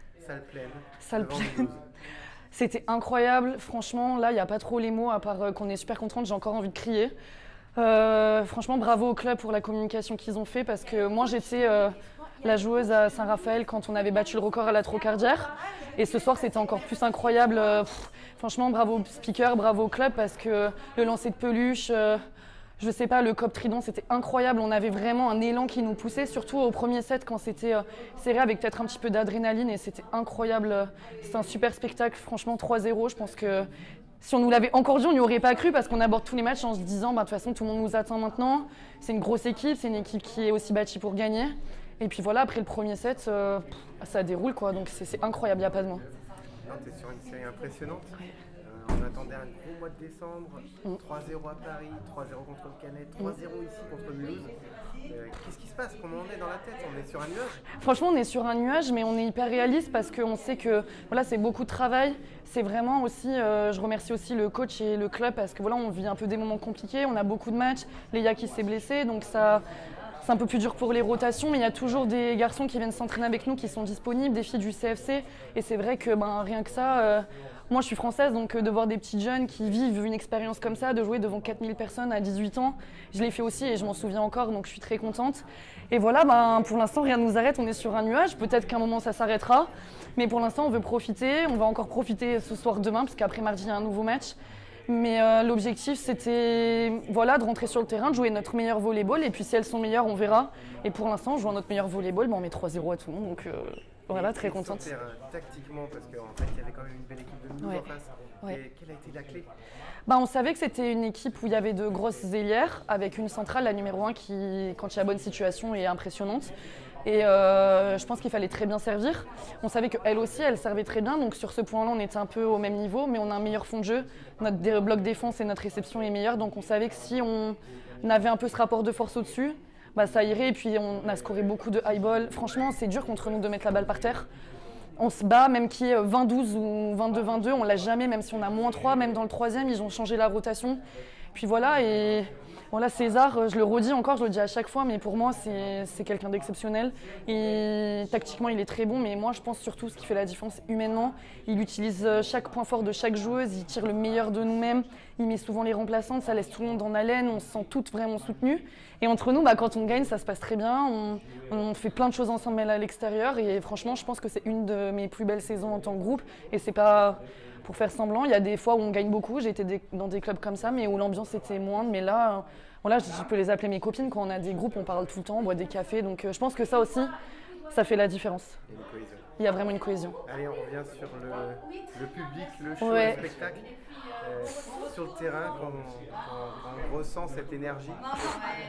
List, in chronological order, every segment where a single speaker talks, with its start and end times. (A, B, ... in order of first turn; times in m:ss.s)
0:00.2-0:01.8 A
0:01.0-0:01.7 B
0:02.5-0:07.1 B
0:07.8-0:22.2 B
0:22.8-0:33.7 B
0:34.2-0:46.0 B
0:46.7-0:54.5 A
0:55.1-0:57.6 A
0:57.8-1:09.6 B
1:10.2-1:34.4 B
1:34.9-1:44.9 B
1:44.1-1:49.5 A
1:50.1-1:56.5 B
1:57.0-2:14.3 B
2:15.0-2:20.8 B
2:21.3-2:57.1 B
2:57.7-2:58.6 B
2:58.7-2:59.2 A
2:59.4-3:00.2 B
3:00.2-3:08.4 A
3:02.8-3:03.2 B